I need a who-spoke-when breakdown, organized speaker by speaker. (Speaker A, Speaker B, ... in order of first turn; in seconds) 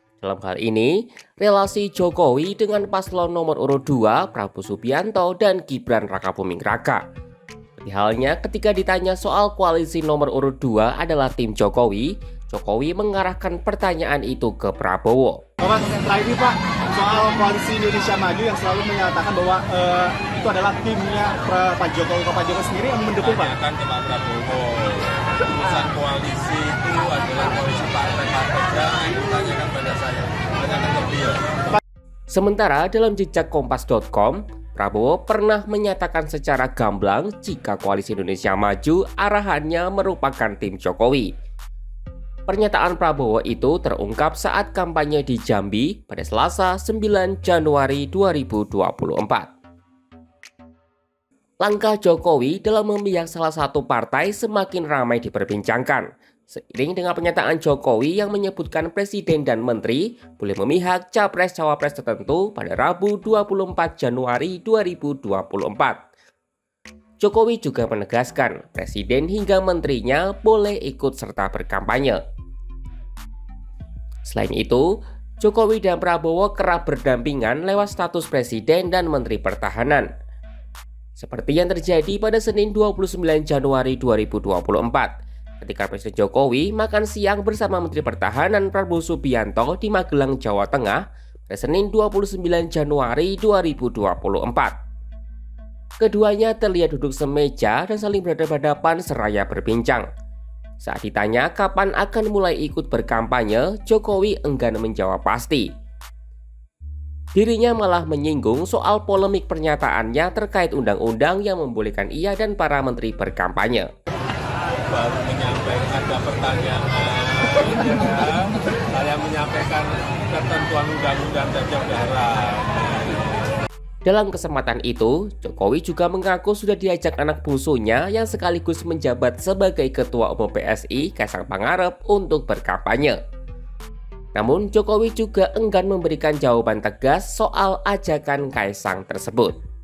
Speaker A: 0.2-7.0, 7.8-15.4, 32.3-41.3, 42.5-49.5, 51.6-66.0, 67.2-72.2, 74.2-80.1, 81.2-85.1, 85.6-94.7, 96.0-100.1, 100.8-105.7, 107.3-113.9, 124.0-133.2, 134.3-139.6
Speaker B: 15.6-23.6
Speaker C: 23.2-31.4, 114.9-123.2